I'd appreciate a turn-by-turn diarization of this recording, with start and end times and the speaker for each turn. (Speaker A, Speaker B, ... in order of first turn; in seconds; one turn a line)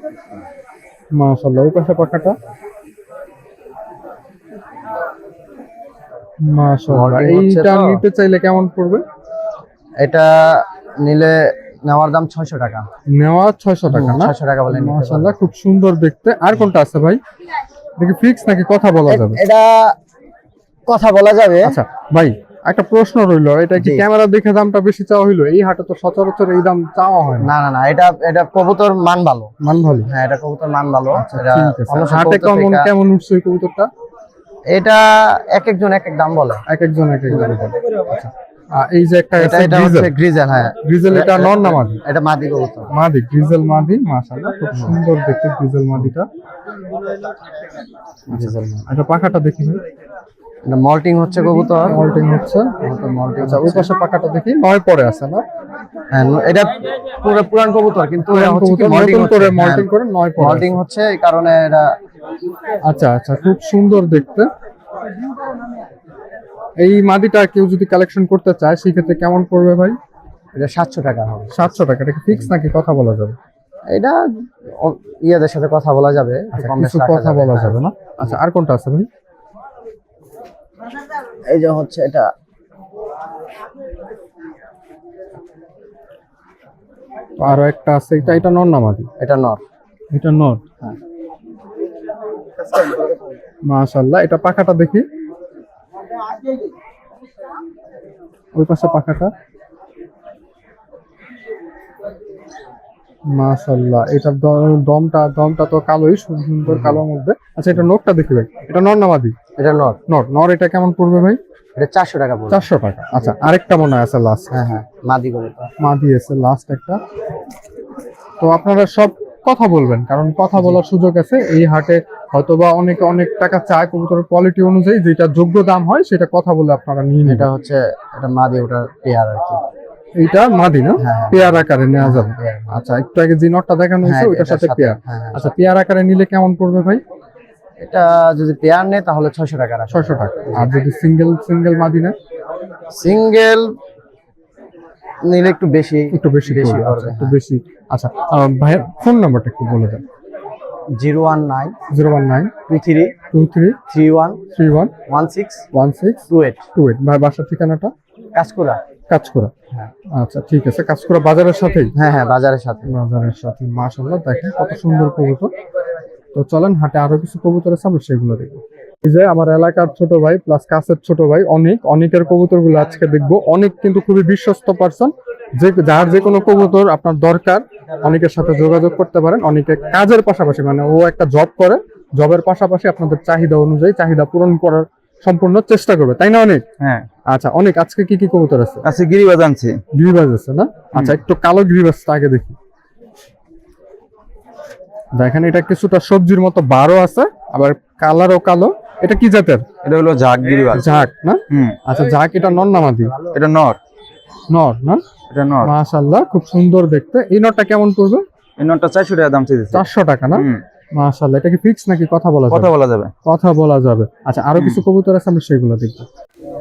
Speaker A: 1.1-2.4
Speaker A: 6.4-9.0
Speaker B: 6.9-8.0
Speaker B: 10.0-12.9
Speaker A: 13.1-17.2
Speaker B: 13.9-15.5
Speaker A: 18.0-19.4
Speaker B: 19.1-19.9
Speaker B: 20.9-21.7
Speaker A: 21.6-27.5
Speaker B: 23.8-24.0
Speaker B: 27.4-29.5
Speaker A: 29.6-30.1
Speaker B: 30.1-32.9
Speaker A: 31.1-33.9
Speaker B: 34.7-36.6
Speaker A: 36.7-40.1
Speaker B: 39.4-42.9
Speaker A: 40.8-42.0
Speaker A: 42.9-46.3
Speaker B: 44.7-45.0
Speaker B: 48.3-48.9
Speaker A: 48.3-49.8
Speaker B: 50.6-52.0
Speaker A: 51.5-52.7
Speaker B: 52.8-53.9
Speaker A: 53.4-55.4
Speaker B: 56.1-62.0
Speaker A: 58.2-60.8
Speaker A: 62.9-64.5
Speaker A: 66.8-70.0
Speaker B: 70.5-71.8
Speaker A: 71.5-73.4
Speaker B: 73.9-78.4
Speaker A: 76.5-79.1
Speaker B: 81.5-82.3
Speaker A: 87.4-89.1
Speaker B: 89.2-89.6
Speaker A: 90.1-90.6
Speaker B: 92.6-93.3
Speaker A: 93.7-95.0
Speaker A: 98.5-99.3
Speaker A: 103.3-109.3
Speaker B: 106.6-107.0
Speaker B: 109.6-110.0
Speaker A: 110.1-111.4
Speaker B: 111.8-112.7
Speaker A: 112.5-114.5
Speaker B: 114.5-115.7
Speaker A: 115.8-117.0
Speaker A: 118.4-127.5
Speaker B: 127.2-129.6
Speaker A: 130.2-137.0
Speaker B: 131.0-132.7
Speaker B: 134.0-135.5
Speaker B: 137.8-140.7
Speaker A: 139.9-142.1
Speaker B: 142.9-143.7
Speaker B: 145.2-147.4
Speaker A: 146.1-150.0
Speaker B: 150.9-151.8
Speaker A: 151.9-152.5
Speaker B: 152.7-153.1
Speaker A: 153.3-153.8
Speaker B: 153.9-154.4
Speaker A: 154.5-154.9
Speaker B: 155.1-155.6
Speaker A: 155.7-157.9
Speaker B: 156.3-156.6
Speaker B: 158.4-158.8
Speaker A: 159.1-159.5
Speaker A: 160.2-161.9
Speaker B: 161.9-162.9
Speaker A: 162.9-165.5
Speaker A: 166.3-186.6
Speaker C: 186.8-187.1
Speaker A: 187.3-188.8
Speaker C: 188.8-189.8
Speaker A: 189.9-192.6
Speaker A: 195.2-199.7
Speaker C: 199.8-200.8
Speaker A: 200.7-203.1
Speaker C: 201.5-201.8
Speaker B: 202.7-203.4
Speaker C: 203.3-203.8
Speaker A: 204.5-205.0
Speaker C: 205.3-205.7
Speaker A: 205.6-208.2
Speaker C: 208.6-210.6
Speaker A: 209.7-212.7
Speaker C: 212.5-213.1
Speaker A: 213.2-216.1
Speaker C: 214.6-214.8